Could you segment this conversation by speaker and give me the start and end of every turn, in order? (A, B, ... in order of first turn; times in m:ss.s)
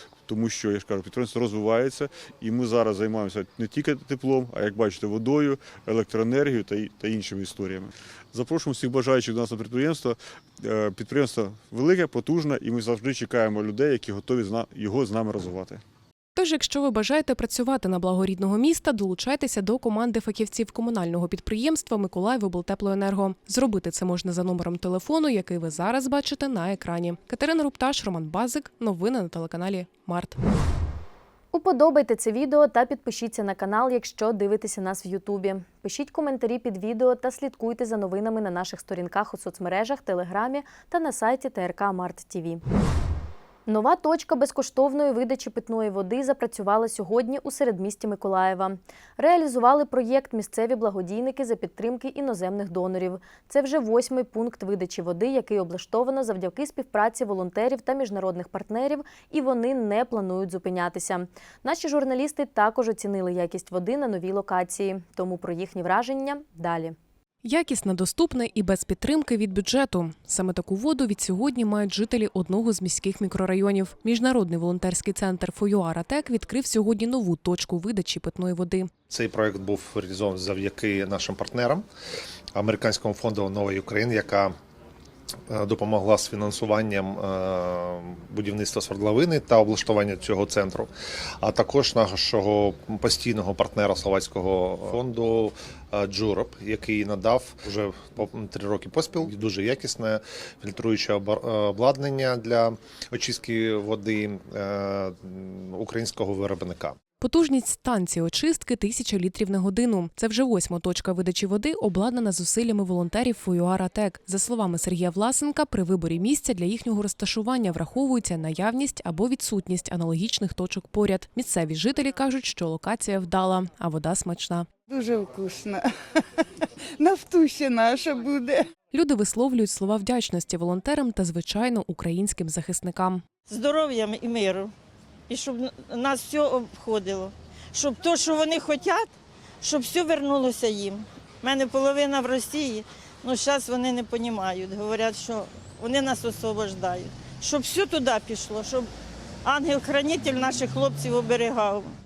0:00.3-0:15.8 A
0:16.3-0:30.4 B
0:31.5-0:42.6 C
0:43.7-1:06.9 C
1:07.4-1:18.9 B
1:19.1-1:21.8 D
1:22.5-1:24.5 D
1:25.5-1:30.9 D
1:31.4-1:47.0 D
1:47.2-2:04.7 B
2:04.9-2:05.9 E
2:06.6-2:08.7 E
2:08.9-2:13.2 B
2:13.6-2:14.7 F
2:15.3-2:19.0 F
2:19.6-2:28.8 F
2:29.4-2:31.8 F